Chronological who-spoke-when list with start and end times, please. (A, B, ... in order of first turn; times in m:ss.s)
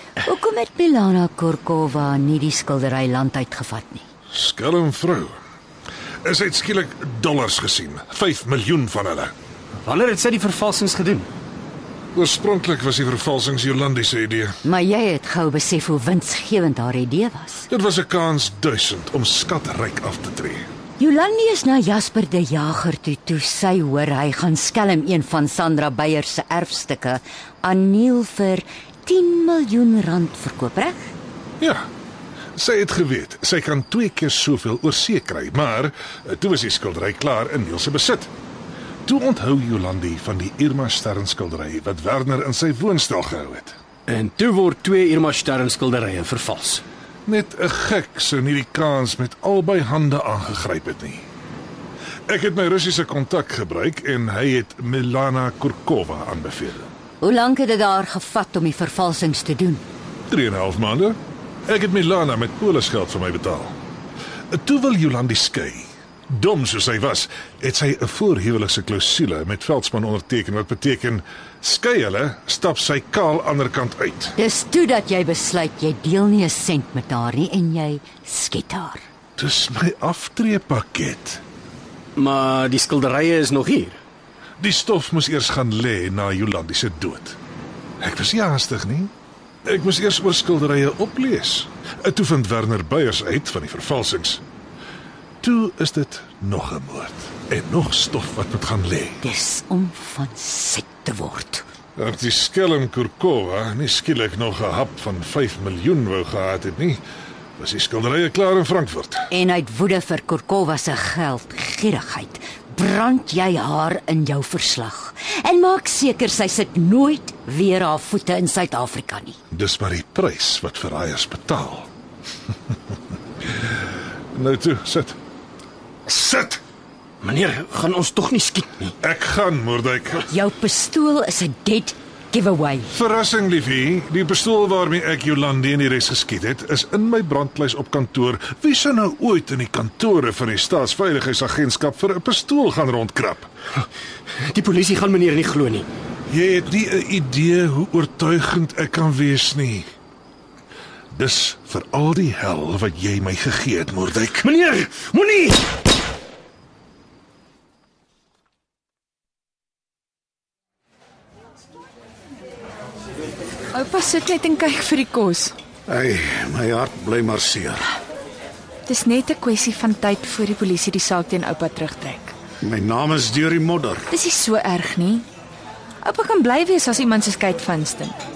0:00.2-0:04.1 A
0:04.3-0:05.4 B
0:06.2-0:09.3 B
0:09.8-0:11.3 C
0:12.2-0:14.6 B
0:14.6-0:17.7 A
0:17.7-0:20.6 B
0:21.0-0:31.1 A
0:31.6-0:31.9 B
0:32.6-0:38.3 B
0:39.0-0:43.8 B
0:44.1-0:46.8 C
0:47.3-0:51.2 B
0:52.3-0:56.9 B
0:57.2-0:59.8 A
1:00.3-1:03.7 B
1:04.5-1:14.4 B
1:14.4-1:19.0 A
1:19.4-1:21.4 B
1:22.2-1:24.0 C
1:24.6-1:27.4 B
1:28.0-1:29.1 B
1:29.7-1:34.4 B
1:35.4-1:39.2 B
1:39.2-1:41.6 A
1:42.0-1:47.0 B
1:47.6-1:49.2 B
1:49.3-1:59.4 A
1:59.5-2:01.9 B
2:04.3-2:05.2 B
2:06.1-2:06.6 B
2:07.2-2:08.9 C
2:09.0-2:10.3 B
2:10.3-2:12.9 A
2:12.9-2:23.5 B
2:24.4-2:25.9 C
2:26.3-2:29.9 B
2:31.1-2:34.5 B
2:34.4-2:35.6 C
2:43.7-2:45.5 D
2:45.9-2:47.9 E
2:48.9-2:52.4 D
2:52.6-2:54.1 E
2:54.1-2:55.3 D
2:56.0-2:58.2 D